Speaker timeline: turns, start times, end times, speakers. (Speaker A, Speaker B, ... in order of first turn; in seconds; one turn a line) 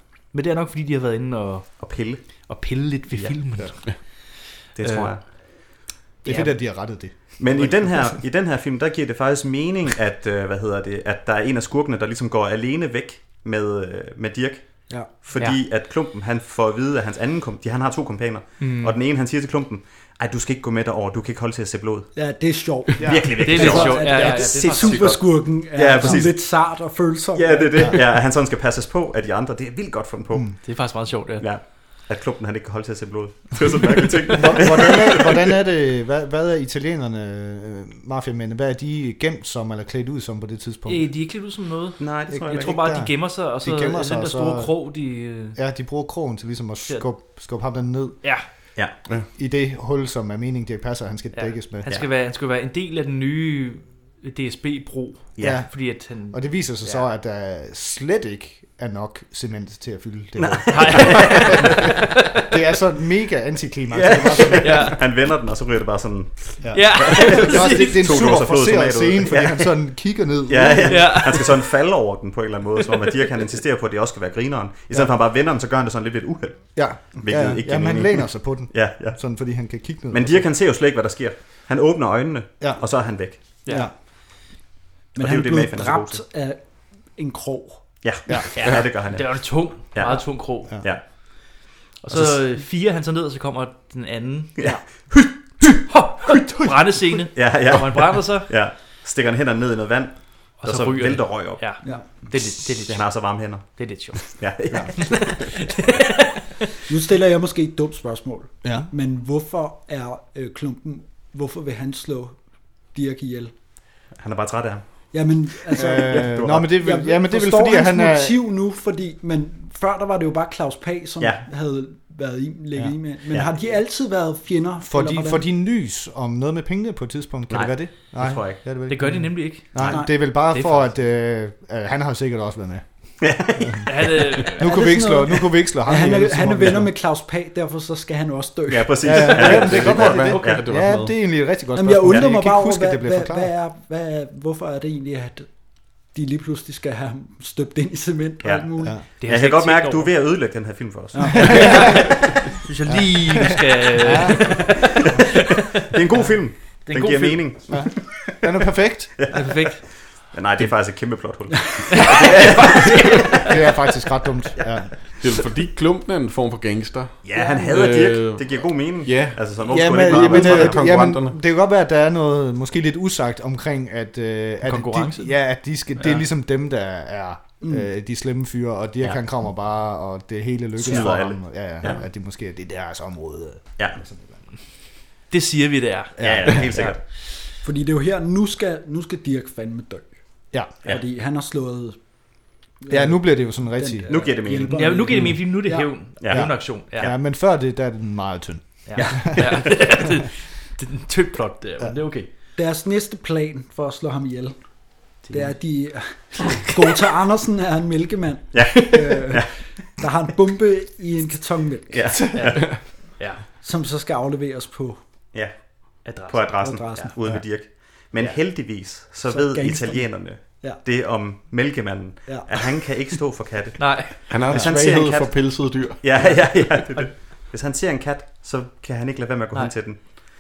Speaker A: 0.3-5.4
Speaker B: 1.8-2.4
Speaker B: 3.1-4.0
Speaker B: 4.7-5.2
Speaker C: 6.2-8.2
Speaker B: 7.4-22.2
Speaker A: 15.3-15.6
Speaker A: 18.6-18.9
Speaker D: 22.1-27.9
Speaker B: 23.0-35.3
Speaker C: 23.0-24.1
Speaker A: 23.4-25.3
Speaker A: 30.6-31.5
Speaker C: 34.3-41.1
Speaker A: 40.9-45.6
Speaker B: 42.0-42.8
Speaker C: 42.3-45.0
Speaker C: 45.5-48.7
Speaker C: 49.4-51.9
Speaker A: 51.3-57.0
Speaker B: 55.4-55.6
Speaker C: 55.4-65.0
Speaker B: 60.4-61.9
Speaker A: 60.7-62.5
Speaker B: 63.9-79.2
Speaker A: 64.5-65.0
Speaker C: 66.6-71.3
Speaker A: 66.7-68.3
Speaker A: 70.8-71.6
Speaker C: 76.8-80.5
Speaker B: 80.1-83.5
Speaker C: 83.7-83.9
Speaker B: 85.2-86.2
Speaker D: 85.2-87.8
Speaker B: 88.0-91.0
Speaker A: 89.0-91.2
Speaker A: 92.0-94.7
Speaker B: 94.6-95.7
Speaker A: 95.9-98.7
Speaker B: 96.3-105.1
Speaker A: 100.6-106.3
Speaker D: 106.9-112.4
Speaker C: 108.6-108.9
Speaker D: 112.9-113.5
Speaker B: 114.2-114.8
Speaker D: 115.1-125.5
Speaker C: 115.7-118.4
Speaker B: 116.1-116.6
Speaker C: 124.8-133.8
Speaker B: 127.5-128.7
Speaker A: 128.9-130.9
Speaker B: 129.7-130.0
Speaker B: 133.2-134.2
Speaker A: 133.8-134.7
Speaker C: 134.4-136.9
Speaker D: 134.6-139.1
Speaker B: 138.7-140.6
Speaker C: 139.0-143.5
Speaker E: 139.4-141.2
Speaker D: 141.8-148.9
Speaker B: 148.4-151.9
Speaker A: 149.2-150.1
Speaker D: 151.1-151.6
Speaker A: 151.4-155.1
Speaker C: 151.5-152.0
Speaker C: 152.9-154.4
Speaker B: 155.9-158.4
Speaker A: 156.8-157.6
Speaker C: 157.7-159.3
Speaker B: 159.2-163.5
Speaker A: 159.3-159.8
Speaker A: 161.8-163.7
Speaker C: 163.5-164.9
Speaker E: 165.2-171.4
Speaker B: 167.2-171.0
Speaker C: 169.7-184.4
Speaker A: 174.6-176.2
Speaker B: 180.8-182.0
Speaker A: 185.3-187.0
Speaker C: 186.2-186.9
Speaker B: 186.2-187.0
Speaker D: 187.6-192.1
Speaker D: 192.8-195.9
Speaker C: 192.9-194.2
Speaker B: 194.1-194.8
Speaker A: 194.7-197.1
Speaker B: 196.2-197.1
Speaker C: 196.3-199.8
Speaker A: 198.9-202.3
Speaker B: 198.9-199.9
Speaker D: 202.6-204.6
Speaker A: 205.3-205.6
Speaker D: 205.3-212.2
Speaker B: 208.5-209.5
Speaker B: 211.9-212.8
Speaker A: 212.3-212.6
Speaker D: 213.6-215.0
Speaker B: 215.3-230.2
Speaker A: 216.0-216.6
Speaker D: 216.6-217.1
Speaker D: 219.3-220.8
Speaker A: 223.8-224.3
Speaker E: 224.3-226.4
Speaker A: 229.5-230.1